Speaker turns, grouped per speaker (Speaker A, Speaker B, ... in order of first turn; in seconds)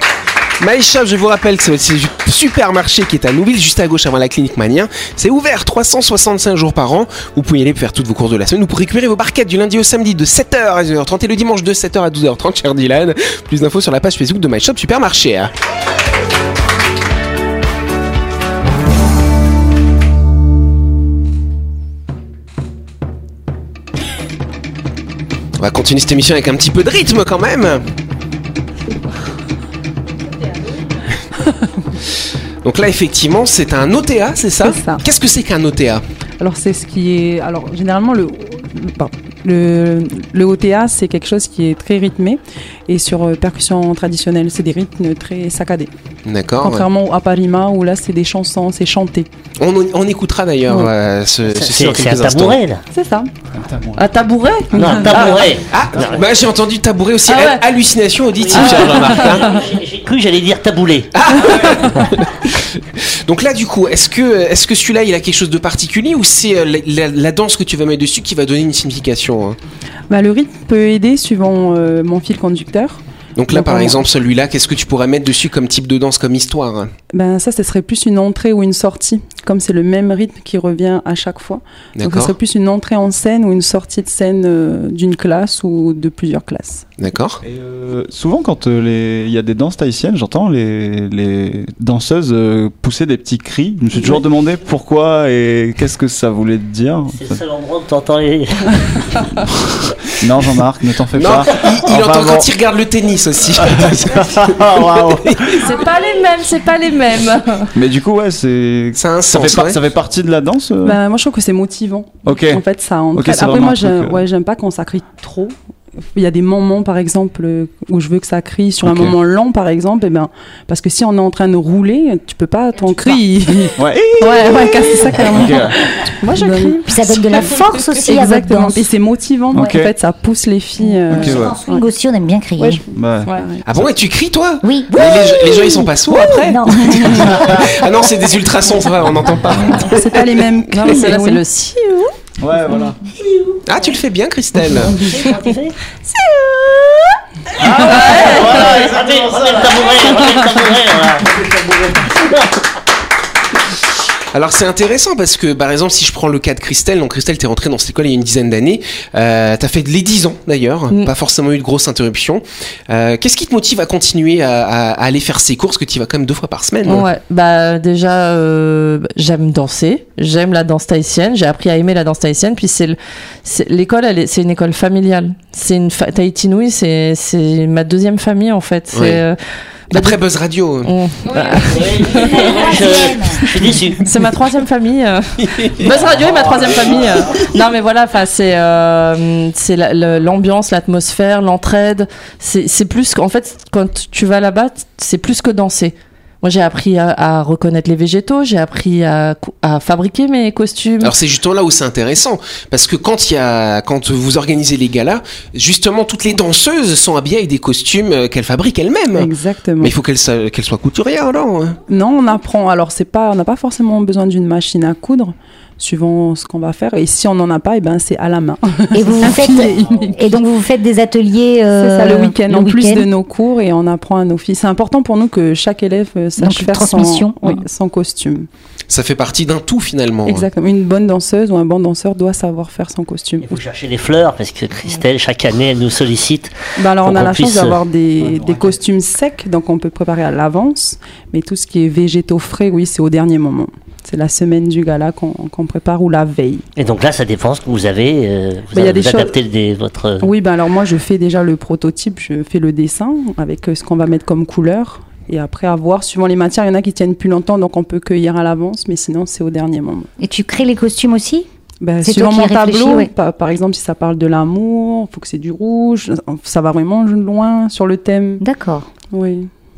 Speaker A: 0.6-15.5, 25.6-27.8, 32.6-36.0, 46.2-46.9, 49.6-52.6, 55.7-59.6, 61.1-69.6, 73.4-76.9, 82.0-82.3, 87.0-87.4, 101.2-105.6, 109.0-109.8, 133.7-140.3, 143.7-145.0, 154.3-167.1, 178.9-179.2, 179.9-180.9, 185.4-185.9, 201.0-211.8, 228.9-230.5
Speaker B: 34.6-35.0, 36.4-45.9, 46.6-49.3, 52.9-53.3, 70.1-74.1, 77.1-86.9, 94.0-94.2, 110.8-131.9, 132.6-133.6, 136.8-137.5, 139.9-141.4, 144.8-145.3, 209.1-209.9, 211.9-220.4, 221.8-228.5, 230.3-233.6, 236.8-246.7, 248.7-249.4, 250.2-260.1, 261.8-268.4, 269.1-269.5
Speaker C: 51.5-52.8, 54.7-56.3, 58.4-61.1, 97.1-98.9, 144.9-145.8, 148.4-151.4, 152.1-152.6, 181.7-184.1, 233.4-237.8, 246.8-250.3
Speaker D: 53.5-55.0, 55.9-56.2, 87.4-97.4, 100.2-102.5, 103.6-105.6, 107.7-111.0, 112.2-114.2, 118.8-119.2, 123.8-125.8, 129.5-129.9, 131.1-131.6, 132.9-133.3, 137.3-137.7, 139.5-139.8, 142.4-143.0, 147.6-150.2, 151.2-152.1, 238.2-238.8
Speaker E: 54.0-55.5, 57.3-57.6, 58.5-59.3, 105.6-107.7, 126.2-126.9, 140.7-142.1, 147.8-148.7, 166.8-179.4, 179.9-180.2, 180.8-182.5, 184.0-201.2
Speaker F: 126.9-128.9, 130.9-132.8, 134.6-137.5, 181.3-183.6, 218.9-223.1, 226.4-227.6, 260.2-261.5, 262.0-263.1, 268.4-268.9